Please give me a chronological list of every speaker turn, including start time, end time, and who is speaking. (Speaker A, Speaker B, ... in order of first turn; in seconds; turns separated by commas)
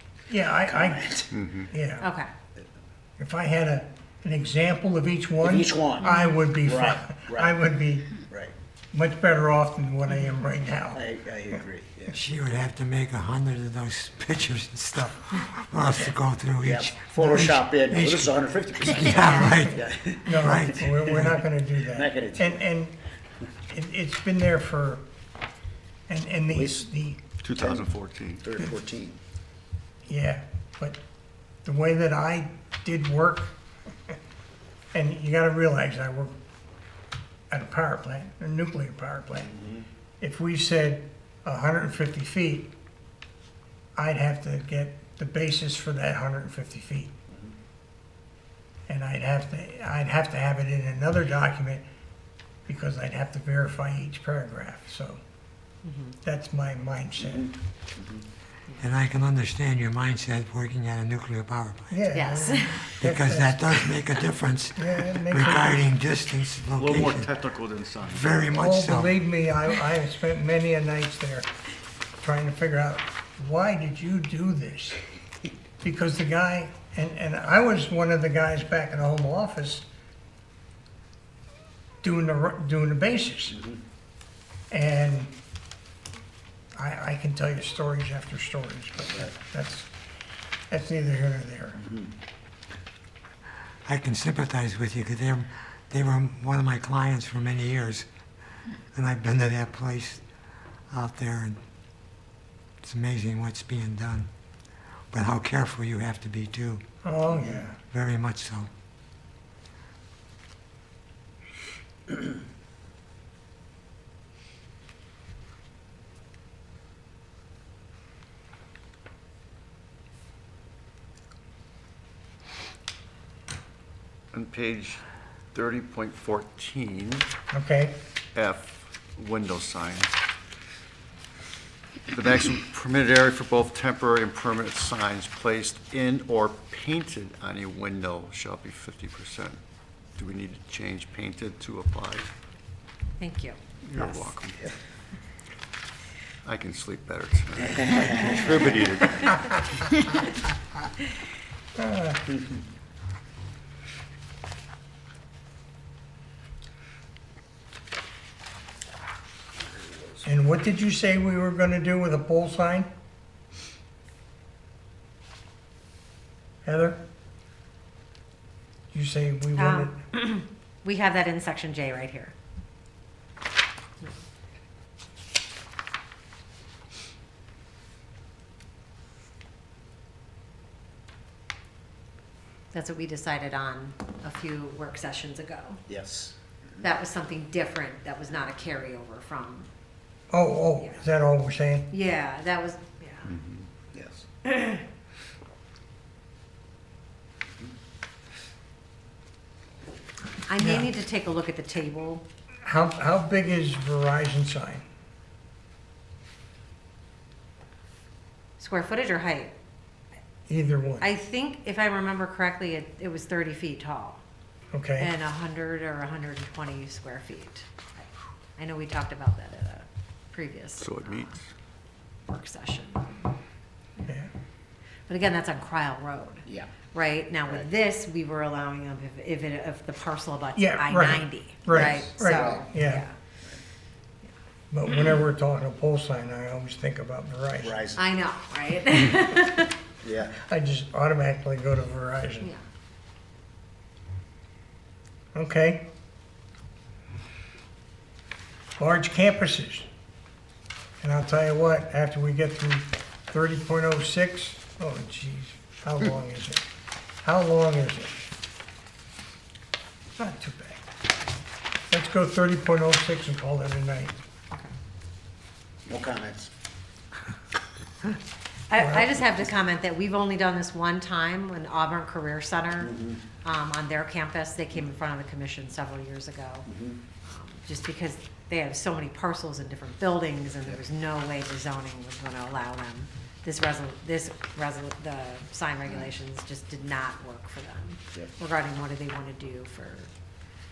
Speaker A: 0.3-1.1, Speaker B: 0.6-1.3, Speaker C: 1.3-1.7, Speaker A: 1.7-2.1, Speaker D: 2.0-2.3, Speaker A: 3.2-8.2, Speaker B: 5.4-7.5, Speaker D: 6.0-6.3, Speaker B: 8.2-8.5, Speaker A: 8.9-11.0, Speaker B: 10.9-12.2, Speaker E: 12.1-19.9, Speaker B: 16.6-21.0, Speaker A: 20.2-22.9, Speaker E: 20.4-21.3, Speaker B: 21.9-22.6, Speaker A: 23.7-25.0, Speaker A: 26.1-27.2, Speaker B: 26.5-26.8, Speaker C: 27.4-28.5, Speaker B: 27.5-29.2, Speaker A: 30.1-31.0, Speaker A: 31.6-33.5, Speaker A: 34.9-36.3, Speaker A: 37.5-39.5, Speaker B: 39.6-39.8, Speaker A: 40.2-42.7, Speaker A: 44.0-47.1, Speaker A: 48.9-51.8, Speaker A: 52.7-55.2, Speaker D: 55.8-56.2, Speaker A: 56.2-57.5, Speaker B: 58.0-58.2, Speaker E: 58.8-62.0, Speaker A: 61.9-63.7, Speaker D: 62.1-62.9, Speaker E: 63.0-67.3, Speaker A: 64.8-65.9, Speaker C: 66.8-68.5, Speaker E: 68.0-69.1, Speaker A: 68.5-71.5, Speaker A: 72.2-75.0, Speaker A: 75.8-79.9, Speaker A: 82.0-83.6, Speaker A: 84.7-85.3, Speaker A: 86.8-89.9, Speaker A: 90.7-91.8, Speaker B: 91.8-92.1, Speaker E: 93.8-98.1, Speaker E: 98.9-100.2, Speaker E: 100.9-101.6, Speaker E: 102.8-104.3, Speaker E: 105.1-106.8, Speaker A: 107.0-107.8, Speaker E: 107.9-108.7, Speaker C: 124.3-125.0, Speaker C: 125.5-127.3, Speaker A: 127.5-128.0, Speaker C: 128.3-130.2, Speaker C: 132.1-139.6, Speaker C: 140.2-142.3, Speaker D: 143.2-144.3, Speaker C: 143.8-144.7, Speaker C: 146.4-149.9, Speaker B: 147.8-148.4, Speaker A: 151.8-152.2, Speaker A: 160.2-162.9, Speaker A: 166.6-167.0, Speaker A: 168.9-170.0, Speaker D: 169.6-172.3, Speaker D: 182.7-185.8, Speaker B: 185.9-186.3, Speaker D: 186.8-189.7, Speaker A: 190.3-191.9, Speaker D: 191.9-193.3, Speaker C: 193.3-193.7, Speaker B: 193.9-194.2, Speaker D: 194.4-194.8, Speaker D: 200.5-202.2, Speaker A: 200.6-200.9, Speaker A: 202.6-204.8, Speaker D: 208.6-209.5, Speaker A: 210.5-211.1, Speaker D: 211.0-214.2, Speaker A: 214.7-215.1, Speaker D: 215.0-221.3, Speaker C: 220.8-221.5, Speaker D: 222.3-223.3, Speaker D: 225.1-233.1, Speaker B: 226.4-226.7, Speaker A: 230.6-233.0, Speaker B: 231.7-232.6, Speaker A: 234.7-237.8, Speaker B: 237.6-238.0, Speaker D: 237.9-239.8, Speaker B: 240.0-240.3, Speaker A: 240.3-242.5, Speaker A: 245.3-245.8, Speaker A: 248.8-249.9, Speaker A: 251.0-256.6, Speaker A: 257.2-258.2, Speaker A: 260.2-260.8, Speaker A: 261.9-264.2, Speaker B: 265.9-266.5, Speaker D: 268.7-276.7, Speaker A: 268.8-269.1, Speaker B: 272.8-273.2, Speaker B: 276.7-277.0, Speaker D: 277.2-290.1